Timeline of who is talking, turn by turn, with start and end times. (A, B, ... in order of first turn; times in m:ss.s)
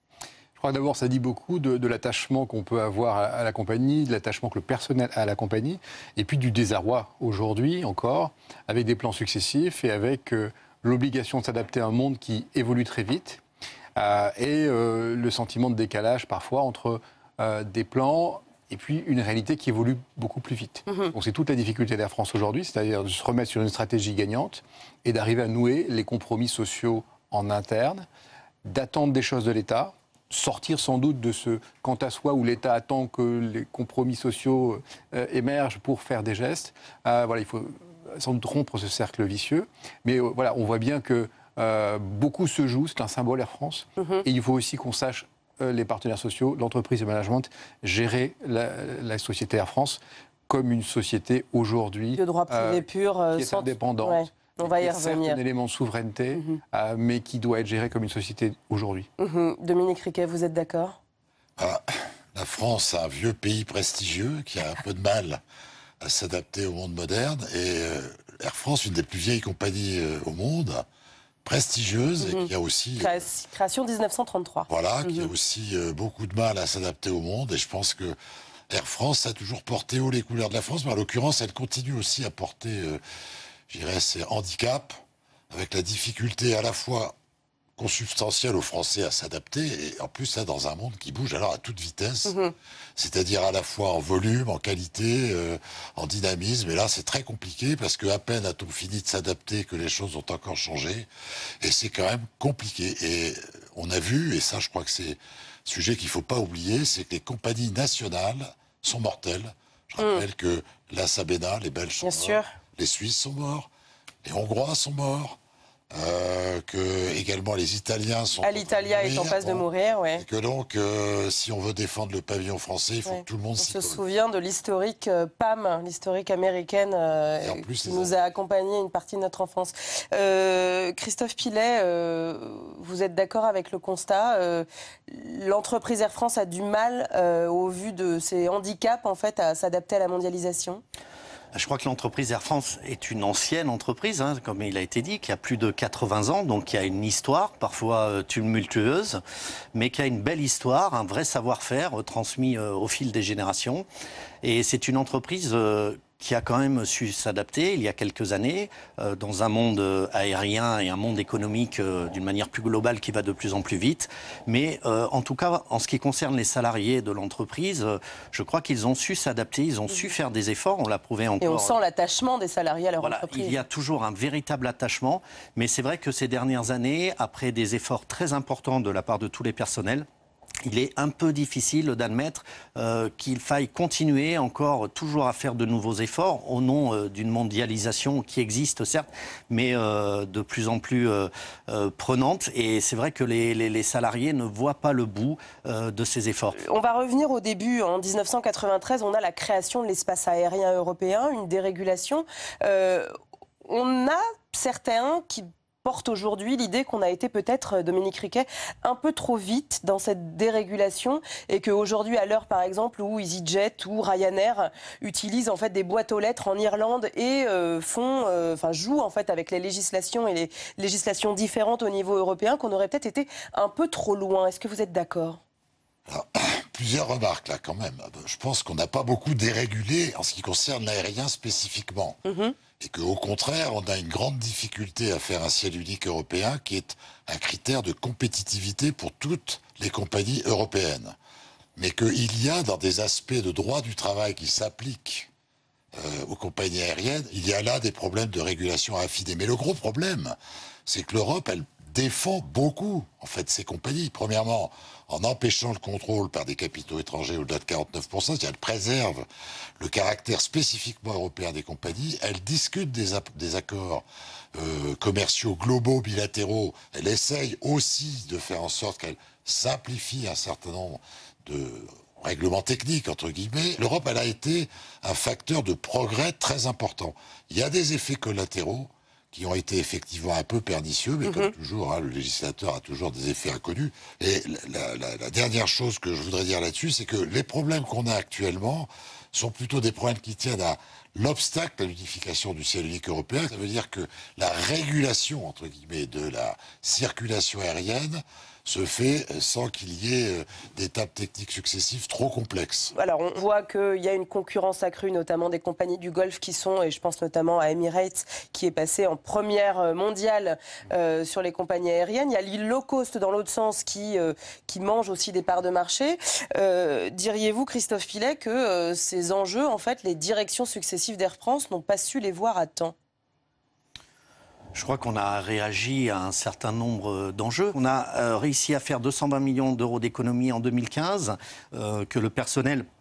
0:00.6-0:13.4 A
0:14.0-0:28.1 A
0:28.6-0:59.1 A
0:44.0-0:44.2 B
0:52.2-0:55.4 B
0:56.3-0:56.6 B
0:59.2-1:01.0 B
1:01.6-1:05.4 C
1:06.0-1:10.8 C
1:11.4-1:13.2 C
1:12.2-1:15.3 B
1:14.7-1:18.2 C
1:18.7-1:23.0 C
1:23.7-1:24.9 C
1:25.5-1:27.1 C
1:27.8-1:32.4 C
1:32.2-1:32.5 B
1:33.0-1:41.1 C
1:41.6-1:53.7 C
1:50.0-1:50.2 B
1:52.0-1:52.5 B
1:54.2-1:55.4 C
1:55.9-1:59.6 C
1:58.4-2:00.2 B
2:00.2-2:04.0 C
2:03.1-2:20.8 B
2:07.4-2:08.1 C
2:21.5-2:29.2 D
2:29.7-2:33.8 D
2:34.4-2:51.8 D
2:51.4-2:53.6 B
2:53.0-3:00.1 D
3:00.6-3:16.6 D
3:16.6-3:23.1 B
3:23.6-3:45.4 B
3:46.1-3:52.2 C
3:52.2-3:52.6 B
3:52.8-4:01.1 C
4:01.8-4:05.3 C
4:06.0-4:10.3 C
4:10.9-4:19.2 C
4:19.8-4:24.0 C
4:24.6-5:02.9 C
4:41.2-4:41.5 B
5:02.9-5:22.9 B
5:24.7-5:32.8 D